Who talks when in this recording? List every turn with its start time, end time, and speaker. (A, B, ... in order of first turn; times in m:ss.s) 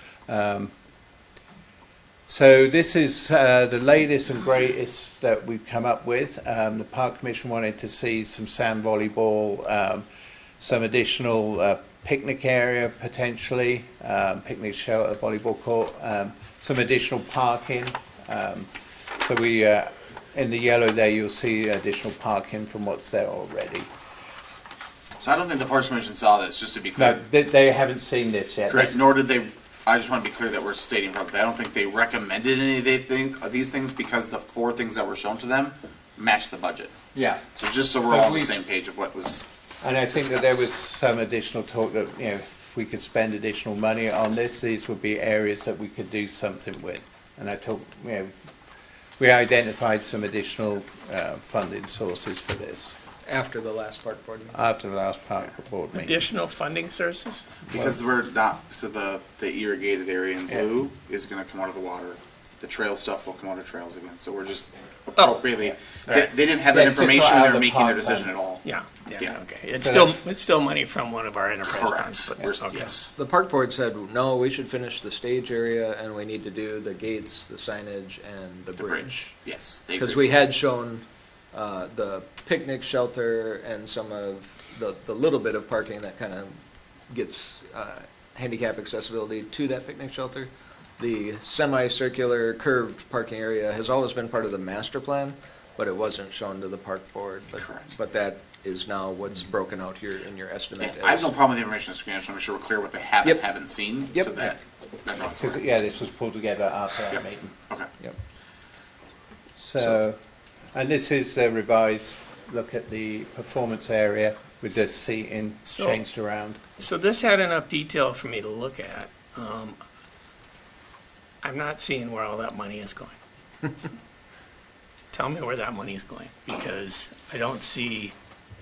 0:00.3-0:00.7 A
0:02.3-0:10.0 A
0:10.6-0:23.9 A
0:25.2-0:27.2 B
0:27.0-0:29.0 A
0:28.7-0:36.9 B
0:37.1-0:37.4 A
0:37.6-0:39.5 B
0:38.1-0:38.5 A
0:39.8-0:48.3 A
0:49.2-0:52.9 A
0:53.2-0:54.6 C
0:54.5-0:56.1 A
0:55.9-0:57.4 D
0:57.7-1:08.6 B
1:06.6-1:08.3 A
1:08.6-1:12.9 D
1:09.7-1:10.2 A
1:11.6-1:13.1 B
1:13.1-1:19.3 C
1:18.8-1:20.3 B
1:20.0-1:26.5 C
1:27.1-1:41.3 C
1:37.6-1:37.8 B
1:40.8-1:45.6 B
1:44.1-1:44.5 C
1:45.4-1:47.5 A
1:47.1-1:47.9 B
1:49.6-1:50.2 A
1:50.7-1:56.6 A
1:55.7-1:56.0 D
1:56.8-1:59.8 D
2:01.4-2:03.1 D
2:05.1-2:08.1 D